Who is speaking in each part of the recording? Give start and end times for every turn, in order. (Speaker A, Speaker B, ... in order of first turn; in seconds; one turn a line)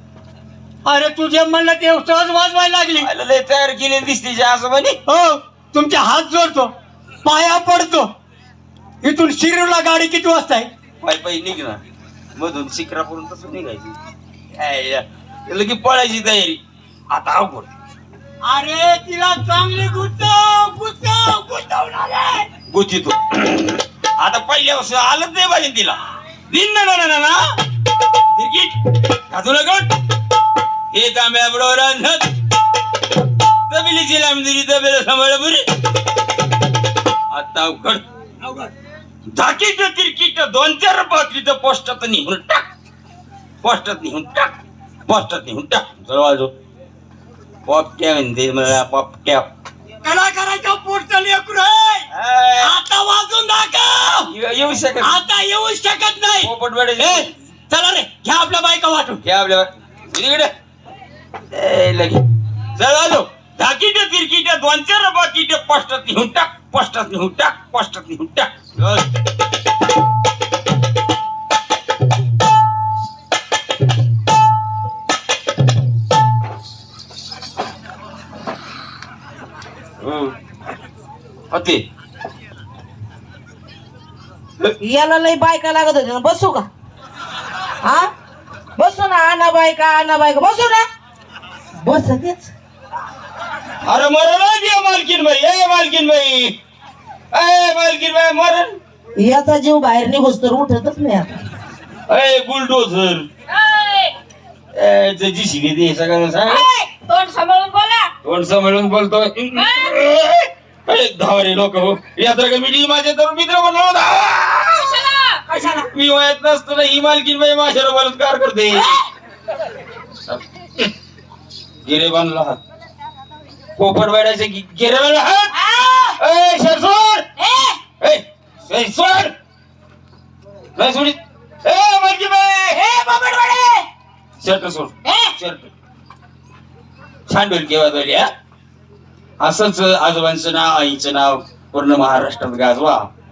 Speaker A: 0.8-3.1
Speaker B: 3.0-5.0
Speaker A: 5.1-6.7
Speaker A: 7.2-8.1
Speaker A: 9.0-10.7
Speaker B: 11.0-11.8
Speaker B: 12.3-14.0
Speaker B: 14.5-17.7
Speaker A: 18.4-22.5
Speaker B: 22.7-27.4
Speaker B: 28.3-28.8
Speaker B: 29.3-29.9
Speaker B: 30.9-32.3
Speaker B: 33.7-35.7
Speaker B: 37.3-38.0
Speaker B: 39.3-42.7
Speaker B: 43.6-44.6
Speaker B: 45.1-46.5
Speaker B: 47.7-49.5
Speaker A: 50.0-52.1
Speaker B: 52.1-52.7
Speaker A: 52.6-54.3
Speaker B: 54.3-55.2
Speaker A: 55.0-59.2
Speaker B: 56.4-57.3
Speaker B: 59.2-60.5
Speaker B: 61.5-62.2
Speaker B: 62.8-69.1
Speaker B: 80.0-80.3
Speaker B: 81.5-81.8
Speaker C: 84.8-86.7
Speaker C: 87.8-88.1
Speaker C: 88.8-90.8
Speaker C: 91.8-92.5
Speaker B: 93.8-96.5
Speaker B: 97.3-98.8
Speaker C: 99.2-101.4
Speaker B: 102.1-103.3
Speaker D: 103.5-104.2
Speaker B: 104.7-106.7
Speaker D: 106.5-108.1
Speaker B: 108.2-115.0
Speaker D: 109.5-110.0
Speaker D: 114.7-115.5
Speaker B: 115.8-118.9
Speaker B: 120.3-120.9
Speaker B: 121.8-122.6
Speaker B: 123.8-125.5
Speaker C: 125.5-126.2
Speaker B: 126.2-127.3
Speaker C: 127.4-127.8
Speaker B: 127.9-129.3
Speaker B: 130.8-132.8
Speaker C: 132.7-133.9
Speaker B: 134.4-135.7
Speaker C: 135.0-135.3
Speaker B: 137.3-138.3
Speaker B: 139.4-143.1